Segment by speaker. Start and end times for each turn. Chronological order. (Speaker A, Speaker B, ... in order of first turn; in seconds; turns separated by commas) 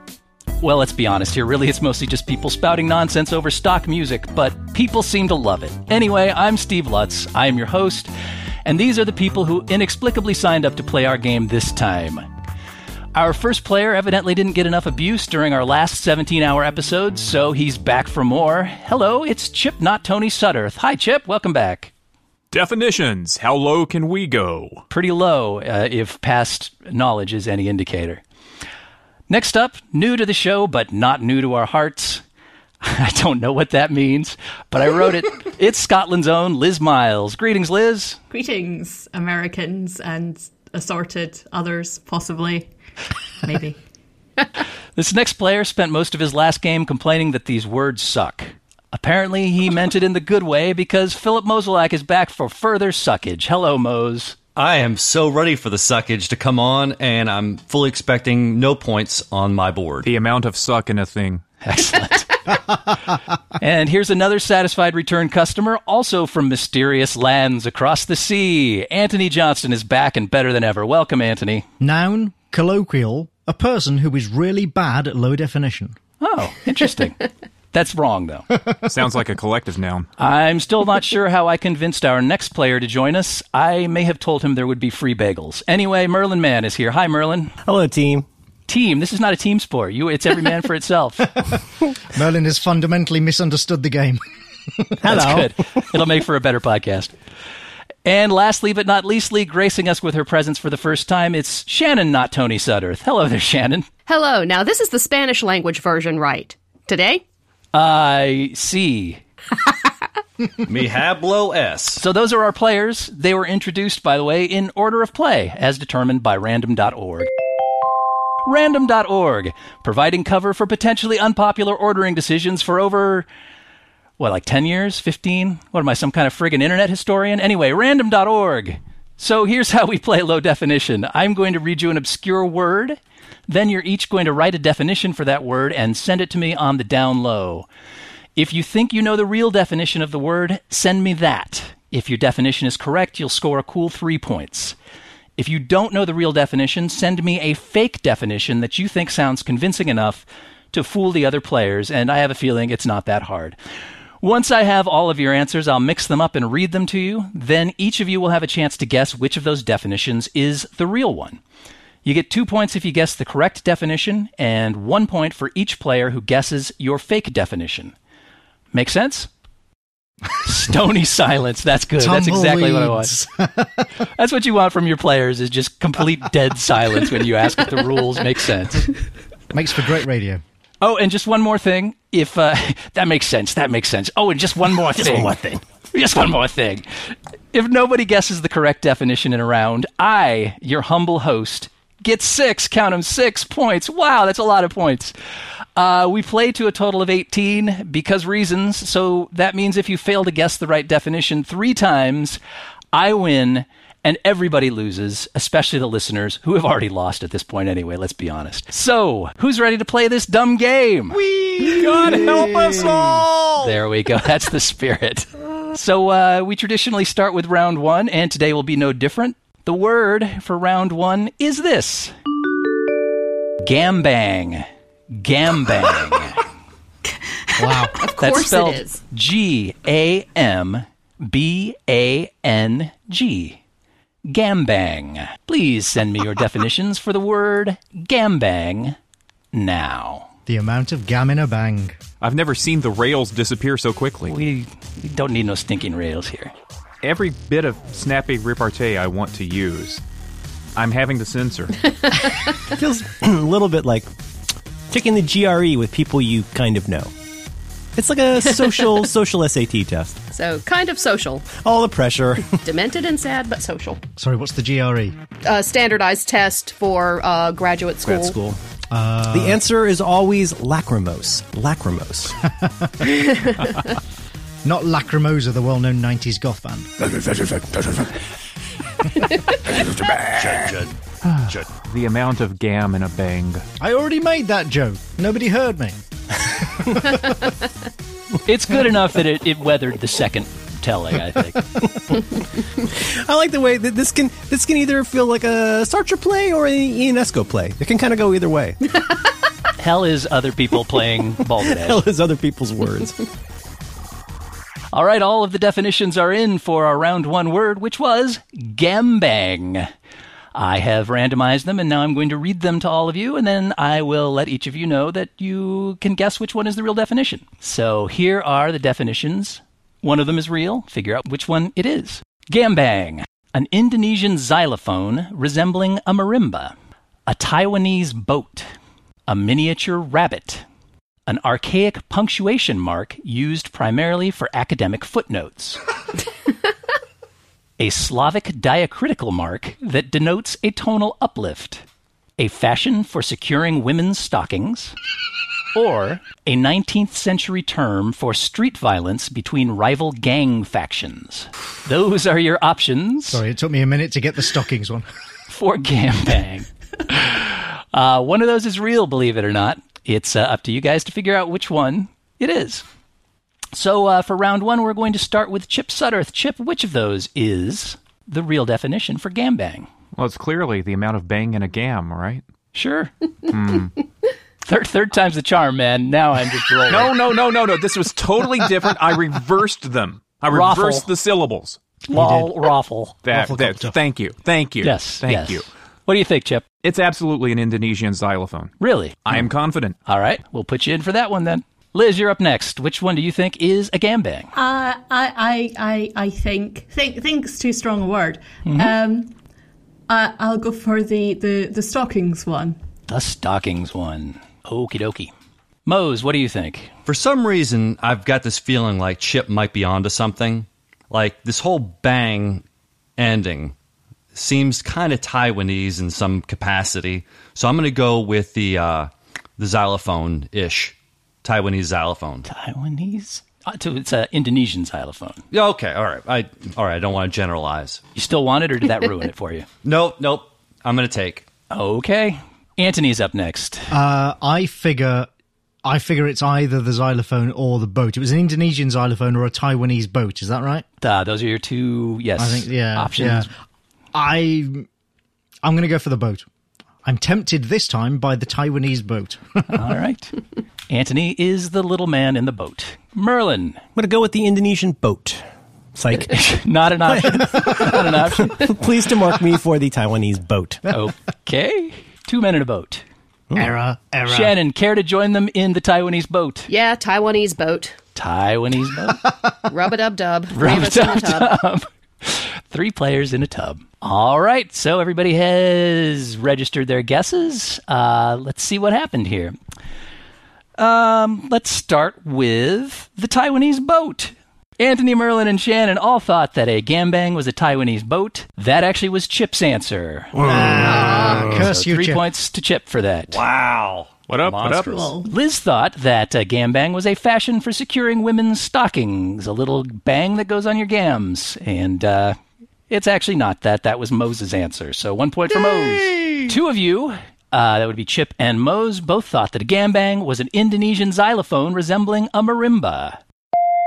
Speaker A: 0.6-8.1, Speaker A: 8.6-12.2, Speaker A: 13.1-21.9, Speaker B: 22.5-24.8, Speaker A: 24.9-28.2, Speaker A: 29.3-32.2, Speaker A: 32.8-38.2, Speaker C: 38.3-42.7, Speaker C: 43.4-43.8, Speaker A: 44.9-54.4, Speaker D: 54.5-60.1, Speaker B: 60.0-61.4, Speaker A: 61.6-62.4, Speaker A: 63.6-71.6, Speaker E: 71.8-76.0, Speaker A: 76.2-78.5, Speaker B: 78.9-80.1, Speaker A: 80.2-87.5, Speaker F: 87.6-88.2, Speaker A: 88.7-91.3, Speaker E: 91.5-94.2, Speaker E: 94.8-95.3, Speaker F: 95.0-95.5, Speaker A: 95.0-97.1, Speaker A: 98.0-103.9, Speaker G: 104.1-107.2, Speaker A: 107.7-109.2, Speaker D: 110.6-112.0, Speaker A: 112.0-117.3, Speaker A: 118.4-123.2, Speaker A: 124.2-137.7, Speaker A: 138.3-144.8, Speaker A: 145.4-153.6, Speaker A: 154.2-161.4, Speaker A: 162.0-167.9, Speaker A: 168.7-169.3, Speaker A: 170.4-173.1, Speaker E: 172.0-173.8, Speaker A: 174.2-178.9, Speaker E: 179.5-180.4, Speaker A: 180.8-185.3, Speaker F: 184.8-185.6, Speaker A: 185.9-195.1, Speaker A: 195.8-202.4, Speaker A: 202.9-211.2, Speaker B: 211.2-213.7, Speaker E: 211.8-213.2, Speaker A: 213.6-222.1, Speaker A: 223.6-226.4, Speaker E: 227.6-227.9, Speaker G: 228.0-229.0, Speaker A: 228.2-233.6, Speaker A: 234.3-239.0, Speaker A: 239.5-240.3, Speaker E: 240.5-242.0, Speaker B: 242.2-244.4, Speaker A: 244.3-246.5, Speaker B: 247.0-250.0, Speaker B: 250.8-251.8, Speaker F: 252.7-254.1, Speaker F: 254.9-257.1, Speaker F: 257.9-260.1, Speaker G: 260.3-261.5, Speaker F: 261.5-262.6, Speaker G: 262.6-264.0, Speaker E: 264.2-265.2, Speaker G: 265.4-268.4, Speaker F: 268.1-268.6, Speaker E: 268.9-269.6, Speaker F: 269.3-272.4, Speaker E: 272.6-273.1, Speaker E: 274.6-276.9, Speaker F: 277.0-278.1, Speaker F: 279.9-280.2, Speaker D: 280.2-281.7, Speaker B: 281.2-283.6, Speaker E: 283.8-287.3, Speaker A: 288.4-291.8, Speaker F: 292.1-298.8, Speaker A: 299.8-302.0, Speaker F: 301.6-303.2, Speaker A: 304.9-309.9, Speaker A: 310.5-326.7, Speaker A: 327.3-328.7, Speaker A: 329.3-330.6, Speaker A: 331.3-335.8, Speaker A: 337.8-341.8, Speaker A: 342.4-344.9, Speaker A: 345.7-353.4, Speaker E: 353.3-355.0, Speaker A: 355.5-362.8, Speaker A: 363.7-369.9, Speaker B: 370.1-372.4, Speaker A: 372.7-373.1, Speaker B: 373.5-373.9, Speaker A: 374.6-377.2, Speaker B: 376.9-381.8, Speaker A: 380.5-381.1, Speaker A: 382.1-383.1, Speaker E: 382.1-382.5, Speaker B: 383.2-385.7, Speaker E: 383.3-383.9, Speaker A: 384.8-386.6, Speaker B: 386.8-390.0, Speaker A: 388.8-389.3, Speaker A: 390.1-394.5, Speaker C: 394.5-399.3, Speaker A: 398.6-398.9, Speaker C: 400.1-402.8, Speaker A: 403.1-405.3, Speaker A: 405.9-406.9, Speaker D: 407.1-412.6, Speaker D: 413.2-413.7, Speaker D: 414.3-422.4, Speaker A: 422.4-425.4, Speaker D: 425.5-428.0, Speaker A: 428.1-429.7, Speaker D: 429.8-431.4, Speaker A: 431.7-433.9, Speaker E: 433.9-435.3, Speaker E: 435.8-440.8, Speaker A: 441.0-443.5, Speaker E: 442.4-443.5, Speaker E: 444.1-444.9, Speaker E: 445.6-446.4, Speaker E: 447.0-449.8, Speaker A: 449.7-450.4, Speaker A: 450.9-453.8, Speaker F: 453.9-455.4, Speaker F: 455.9-456.5, Speaker A: 456.2-458.8, Speaker F: 457.0-460.8, Speaker A: 460.9-463.0, Speaker E: 463.5-464.6, Speaker A: 464.2-466.7, Speaker G: 466.7-467.9, Speaker A: 468.1-469.3, Speaker G: 469.7-471.5, Speaker A: 470.5-479.5, Speaker A: 480.8-493.4, Speaker E: 490.4-492.2, Speaker D: 493.3-495.1, Speaker B: 494.3-494.9, Speaker C: 494.8-495.3, Speaker A: 495.2-502.4, Speaker A: 502.9-513.2